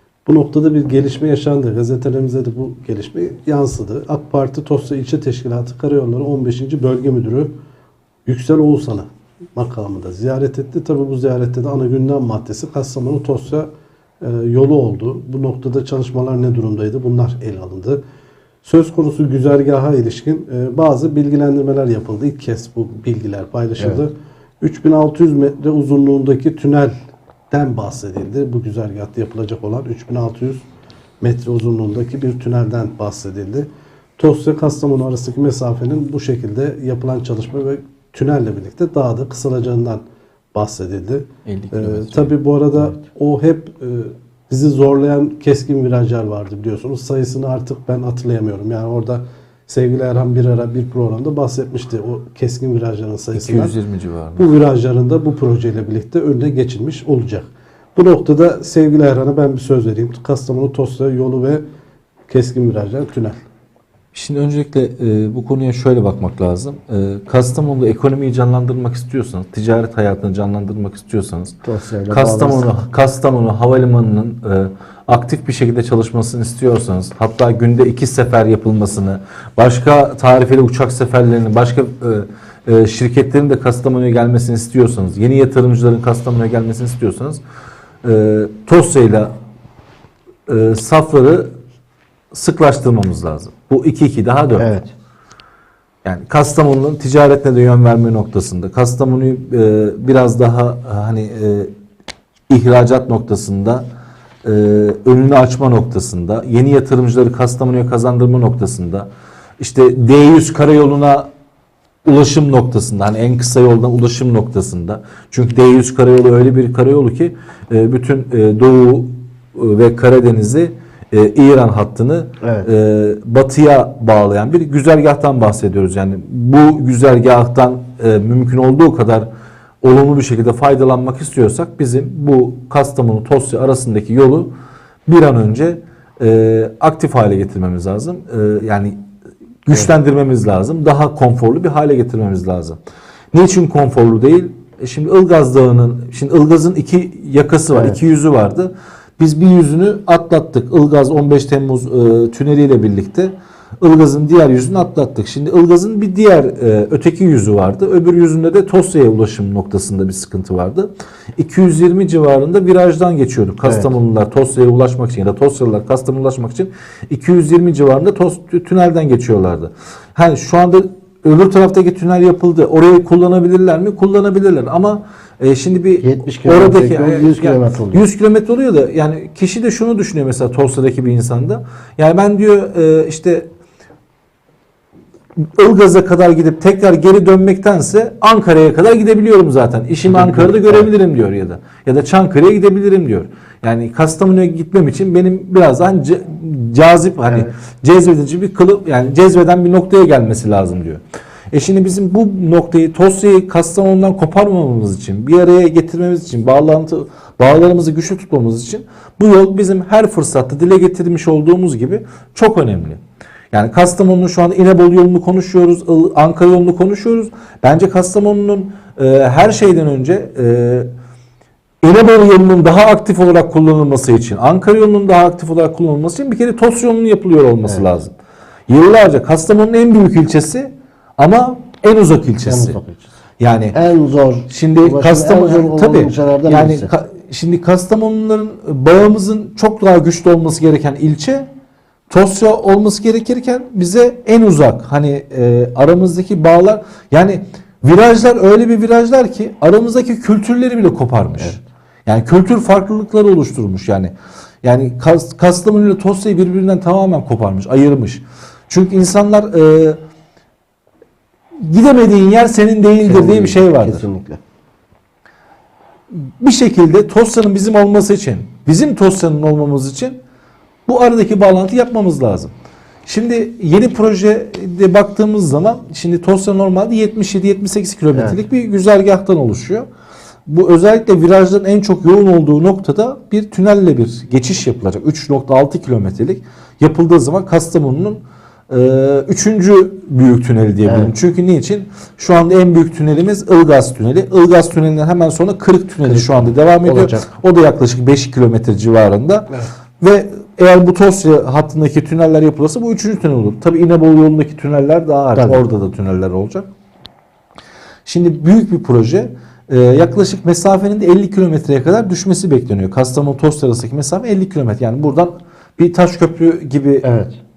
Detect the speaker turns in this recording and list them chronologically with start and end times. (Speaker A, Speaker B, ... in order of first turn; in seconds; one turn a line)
Speaker A: 0.3-7.5
Speaker A: 8.3-13.7
Speaker A: 14.2-18.0
Speaker A: 18.6-26.9
Speaker A: 27.5-30.7
Speaker A: 31.2-40.0
Speaker A: 40.5-53.8
Speaker B: 41.5-42.3
Speaker B: 53.4-54.5
Speaker A: 54.4-61.6
Speaker A: 62.3-63.4
Speaker B: 64.1-71.6
Speaker C: 71.7-72.7
Speaker B: 72.1-87.4
Speaker B: 88.0-89.3
Speaker B: 90.5-91.5
Speaker B: 92.3-94.7
Speaker C: 94.6-94.9
Speaker B: 96.0-101.7
Speaker B: 102.5-103.9
Speaker B: 104.4-109.1
Speaker B: 109.6-111.3
Speaker B: 112.0-129.3
Speaker C: 122.4-122.7
Speaker B: 129.8-134.5
Speaker B: 135.1-139.0
Speaker B: 139.7-142.8
Speaker B: 143.3-183.5
Speaker C: 147.7-148.0
Speaker C: 163.6-163.9
Speaker C: 176.0-178.0
Speaker B: 185.6-201.0
Speaker C: 190.1-190.9
Speaker B: 201.5-213.0
Speaker B: 213.5-220.9
Speaker B: 221.8-228.1
Speaker B: 228.7-232.8
Speaker C: 232.4-233.1
Speaker B: 233.4-233.8
Speaker C: 233.7-236.9
Speaker B: 234.5-241.5
Speaker B: 242.1-260.0
Speaker B: 261.6-264.1
Speaker C: 263.0-264.4
Speaker B: 266.1-270.2
Speaker B: 270.9-272.5
Speaker B: 273.1-279.9
Speaker C: 278.1-278.4
Speaker B: 280.5-299.5
Speaker C: 290.9-291.1
Speaker C: 296.1-297.3
Speaker B: 300.0-306.7
Speaker C: 305.4-305.6
Speaker B: 308.1-317.1
Speaker C: 317.0-317.4